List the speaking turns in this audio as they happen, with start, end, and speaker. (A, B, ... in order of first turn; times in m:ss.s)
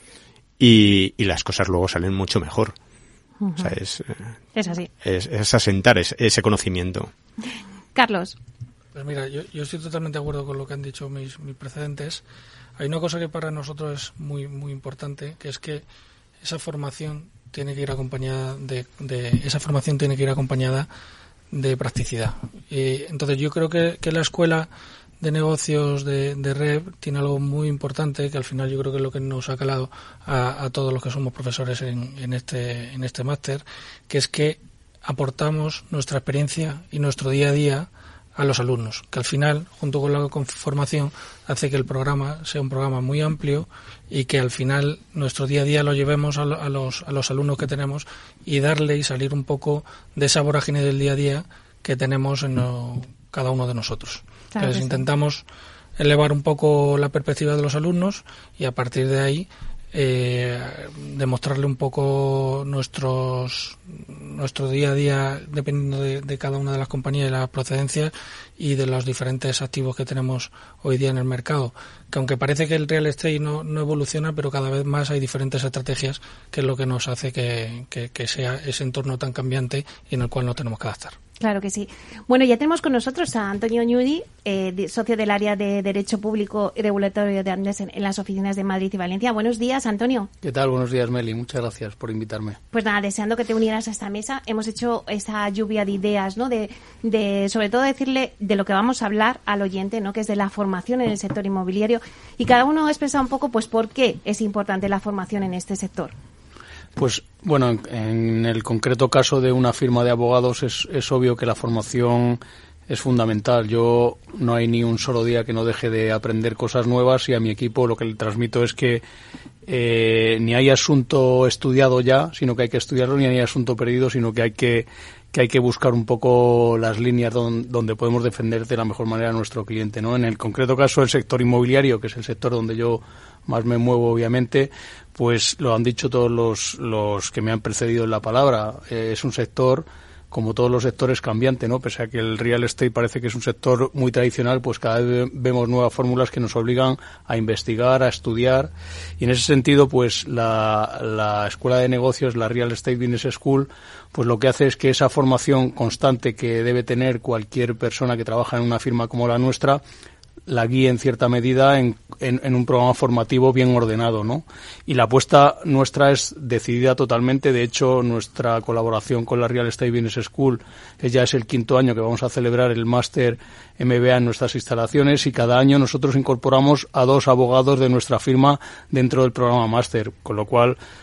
0:00.6-0:02.8 A
0:03.4-0:03.7 B
0:03.6-0:04.3 A
0:04.5-0:04.9 B
0:05.0-0:07.1 A
0:07.9-0:08.4 B
0:08.9-0:12.2 C
0:12.8-0:15.8 C
0:16.4-0:20.9 C
0:21.5-0:24.7 C
0:25.2-0:55.4 C
0:54.6-0:55.0 B
0:56.0-1:21.1 C
1:21.4-1:30.3 B
1:30.4-1:32.6 D
1:32.7-1:46.1 B
1:47.0-1:59.0 D
1:59.7-2:39.8 D
2:40.5-3:00.8 D